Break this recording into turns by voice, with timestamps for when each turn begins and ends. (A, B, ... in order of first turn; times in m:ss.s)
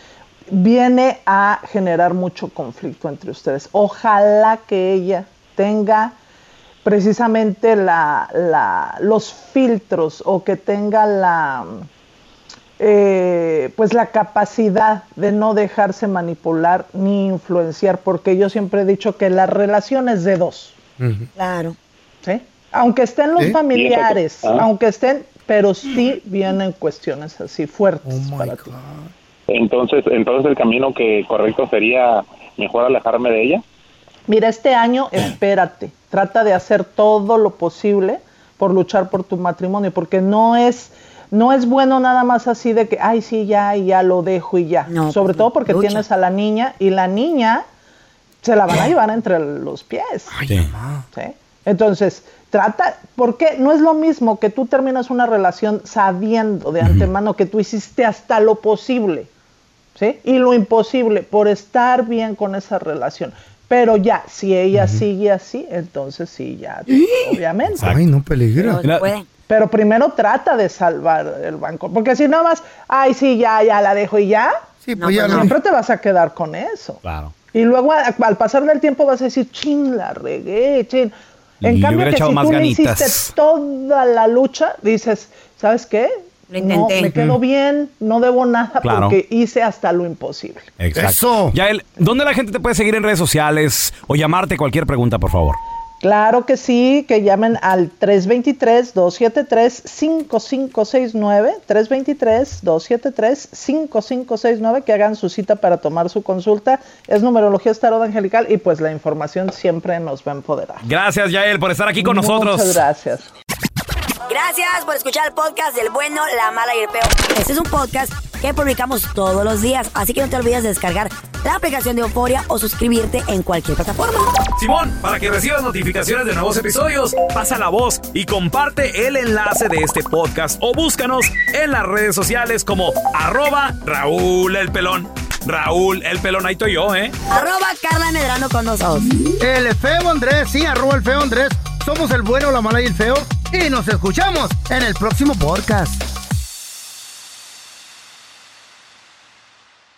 0:00.5-0:06.1 A
0:06.8-0:11.8 A
0:12.8-0:20.8 A
0:21.0-0:21.3 B
0:21.4-0:21.8 C
0:22.2-0:28.7 A
0:23.7-0:24.6 D
0:28.0-0:29.1 B
0:29.5-0:33.6 D
0:34.3-0:47.6 A
0:44.9-0:46.0 C
0:48.4-0:50.4 A
0:50.3-0:51.0 B
0:50.5-0:50.7 E
0:51.1-0:59.3 A
0:59.9-1:08.0 A
1:04.7-1:05.0 B
1:07.8-1:08.8 B
1:08.6-1:09.3 C
1:08.8-1:09.1 E
1:09.5-1:14.6 A
1:14.8-1:15.5 B
1:15.0-1:15.6 C
1:15.3-1:17.0 A
1:17.0-1:17.3 E
1:17.5-1:30.7 A
1:21.6-1:23.3 E
1:26.5-1:27.2 C
1:28.8-1:29.2 E
1:30.8-1:35.6 E
1:30.9-1:31.6 B
1:36.0-1:50.8 A
1:50.8-1:52.8 E
1:52.0-1:53.3 A
1:54.3-2:04.4 C
2:04.6-2:17.1 E
2:17.3-2:19.2 C
2:19.4-2:26.0 B